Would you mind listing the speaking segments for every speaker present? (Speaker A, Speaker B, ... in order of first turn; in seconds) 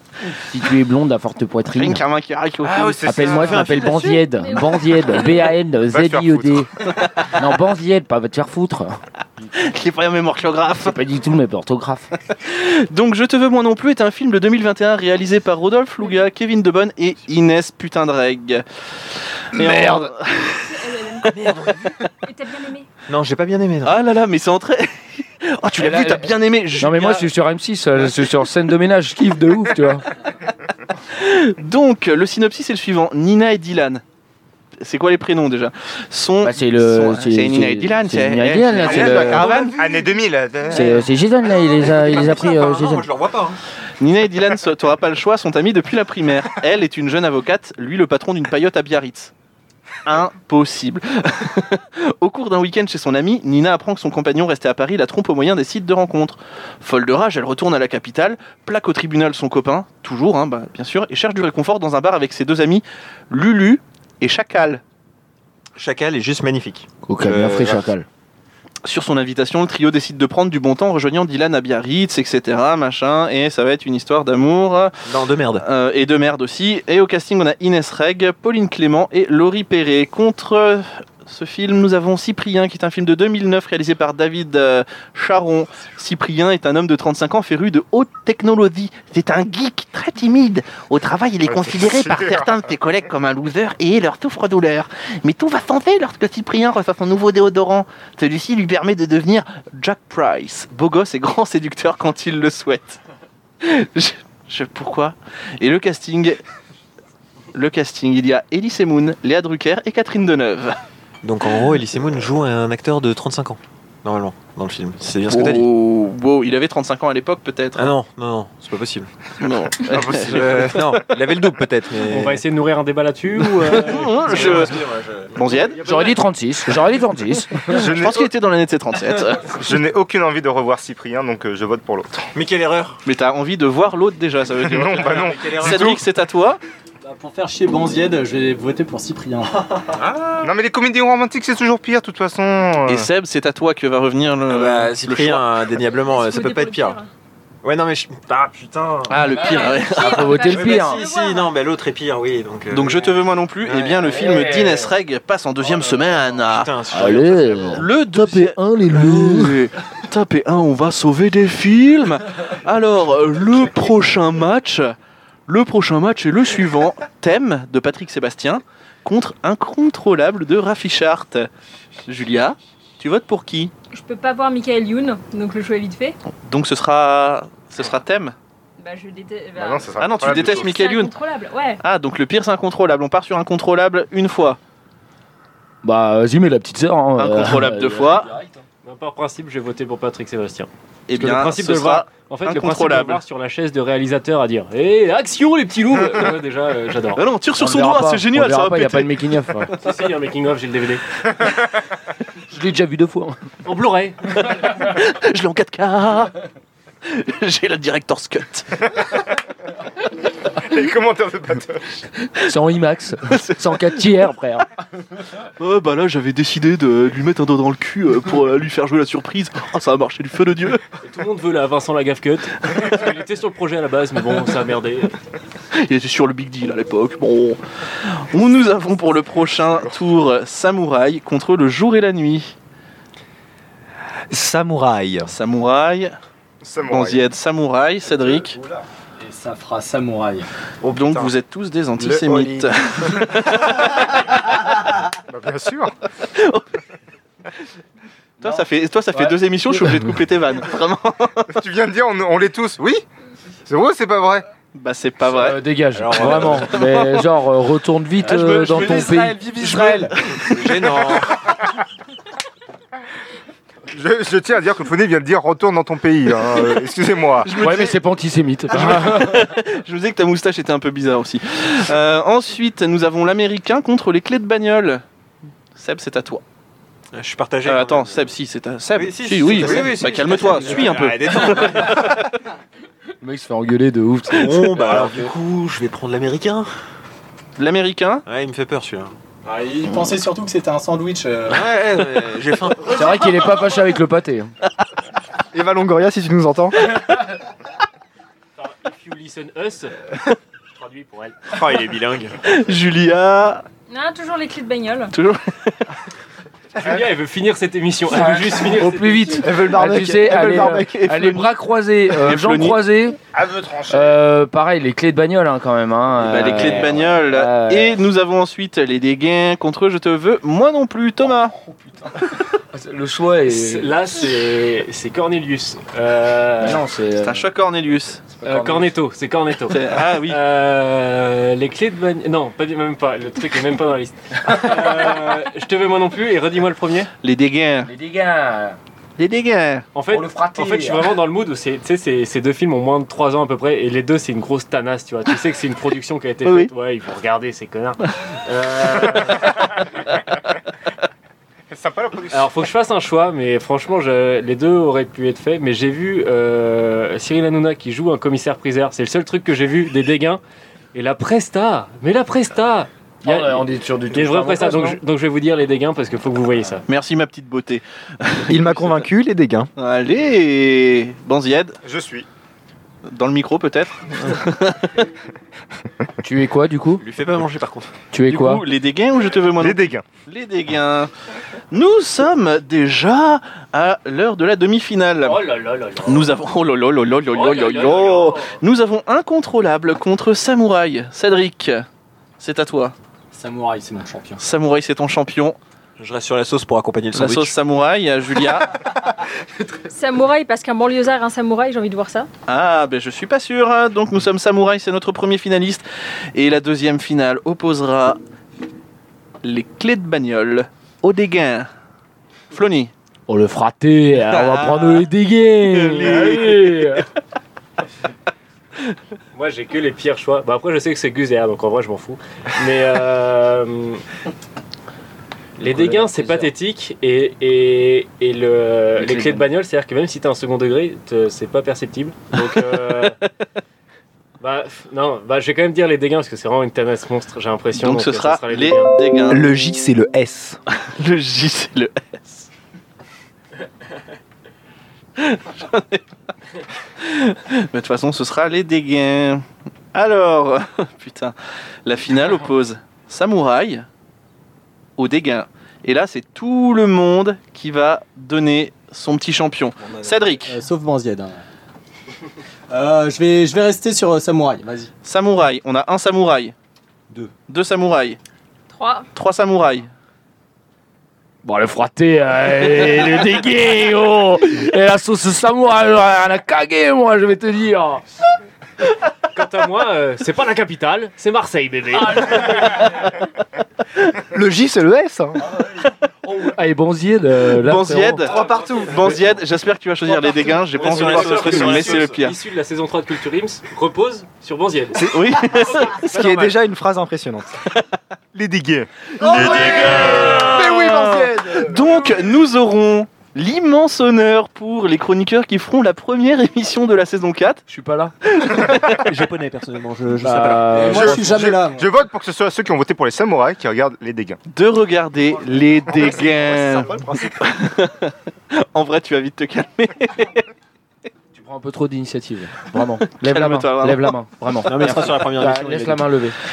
Speaker A: 0.3-2.0, 3.0-6.7, 7.3-9.0, 10.7-12.1, 25.7-30.1, 36.4-39.5, 40.7-43.1, 67.0-68.0, 125.8-127.7, 149.4-151.0, 154.1-154.9, 156.9-159.6, 185.8-188.6, 197.6-199.7, 202.5-203.4, 212.4-214.7, 249.8-250.1, 255.2-259.4, 267.5-269.5, 283.2-284.9, 292.9-294.5, 308.1-313.2, 313.9-318.0, 322.7-324.0, 326.6-327.5, 328.3-328.9, 337.9-338.8, 340.1-341.1, 363.2-365.0, 376.2-377.0, 378.1-378.6, 413.3-417.1, 425.6-426.5, 429.0-429.4, 471.4-478.0, 486.2-488.4, 507.7-508.1, 510.2-511.4, 521.3-526.4
Speaker B: 1.7-3.4, 9.5-11.0, 12.3-18.6, 19.4-21.5, 23.8-27.3, 31.1-34.0, 34.8-39.8, 44.0-49.3, 50.0-64.8, 68.8-75.0, 75.6-103.0, 103.6-106.4, 107.5-110.8, 115.3-117.9, 119.4-120.9, 123.7-124.8, 125.3-125.8, 127.7-129.6, 133.0-136.6, 142.9-145.5, 149.1-150.4, 152.7-156.7, 157.7-164.9, 165.5-171.5, 172.1-173.7, 176.3-178.3, 180.0-181.1, 181.8-184.6, 187.2-188.3, 191.1-193.2, 197.1-199.6, 204.4-206.4, 207.0-208.7, 213.3-214.0, 215.5-220.8, 225.7-232.5, 235.2-236.1, 236.8-238.6, 240.8-244.2, 246.3-246.7, 248.4-251.5, 254.7-255.6, 256.1-257.2, 259.6-261.0, 267.4-268.0, 268.7-275.0, 275.8-276.4, 277.6-282.2, 287.6-288.2, 302.4-303.6, 305.1-305.9, 312.1-312.8, 316.2-321.5, 327.2-328.2, 329.7-330.4, 337.2-337.9, 339.2-339.9, 346.4-346.7, 366.9-369.0, 369.8-371.8, 373.1-375.1, 378.2-381.1, 381.7-385.4, 386.0-391.8, 392.4-392.9, 394.4-395.6, 397.1-398.8, 402.5-408.2, 409.4-411.7, 412.5-412.9, 414.3-414.9, 415.7-416.4, 437.7-439.4, 440.8-442.5, 445.2-446.0, 447.0-453.9, 455.0-460.6, 465.0-466.5, 467.5-468.2, 469.1-469.9, 487.6-492.3, 494.9-496.3, 499.2-507.6, 508.3-508.9, 514.5-520.5, 523.2-524.1
Speaker C: 2.6-3.8, 5.9-6.7, 38.8-41.0, 91.5-92.5, 119.8-121.0, 127.7-128.3, 129.5-132.3, 134.6-136.0, 140.4-143.1, 179.5-180.8, 210.5-212.0, 236.6-237.2, 245.3-245.9, 251.5-253.0, 253.7-254.4, 263.9-267.5, 313.3-314.2, 351.7-352.6, 371.8-372.2, 379.6-380.0, 498.3-500.5, 510.9-514.4
Speaker D: 3.3-4.2, 21.2-22.0, 23.1-24.0, 41.9-43.6, 65.8-67.8, 75.0-75.6, 111.2-115.7, 117.8-119.1, 120.3-122.2, 124.0-125.3, 132.3-133.0, 134.9-135.9, 139.9-140.5, 144.5-147.0, 147.6-149.4, 150.4-154.2, 155.6-157.9, 255.9-256.7, 260.4-261.4, 277.1-278.3, 278.9-282.2, 284.3-286.7, 288.2-289.1, 291.5-293.0, 301.5-302.3, 316.6-316.9, 377.0-377.9, 396.0-397.6, 490.8-492.2, 508.9-511.1, 524.6-526.1
Speaker E: 4.0-5.5, 20.6-21.4, 22.2-22.9, 145.8-147.1, 149.3-151.6, 173.9-176.2, 178.8-181.8, 303.9-305.1, 399.9-402.3, 468.7-469.1
Speaker F: 121.3-122.3, 234.3-235.3, 242.0-242.7, 258.2-260.1, 279.8-280.9, 284.8-285.3, 295.5-296.8, 309.4-311.3, 368.5-369.7, 439.3-440.6, 484.3-485.4, 488.3-489.2, 495.7-497.5, 499.4-501.3, 515.9-517.2
Speaker G: 122.0-124.4, 188.8-197.2, 199.7-201.0, 203.6-204.7, 221.0-225.1, 298.6-300.1, 300.7-301.4, 306.8-309.5, 323.5-326.8, 328.4-337.1, 339.9-349.6, 352.3-360.4, 360.9-366.8, 385.2-386.2, 387.3-388.6, 419.3-424.0, 425.6-433.2, 434.4-438.9, 479.3-482.9, 490.7-496.4
Speaker H: 137.0-139.7, 239.2-240.5, 289.4-291.7, 393.3-394.4, 460.4-461.4, 462.7-464.9, 510.8-511.9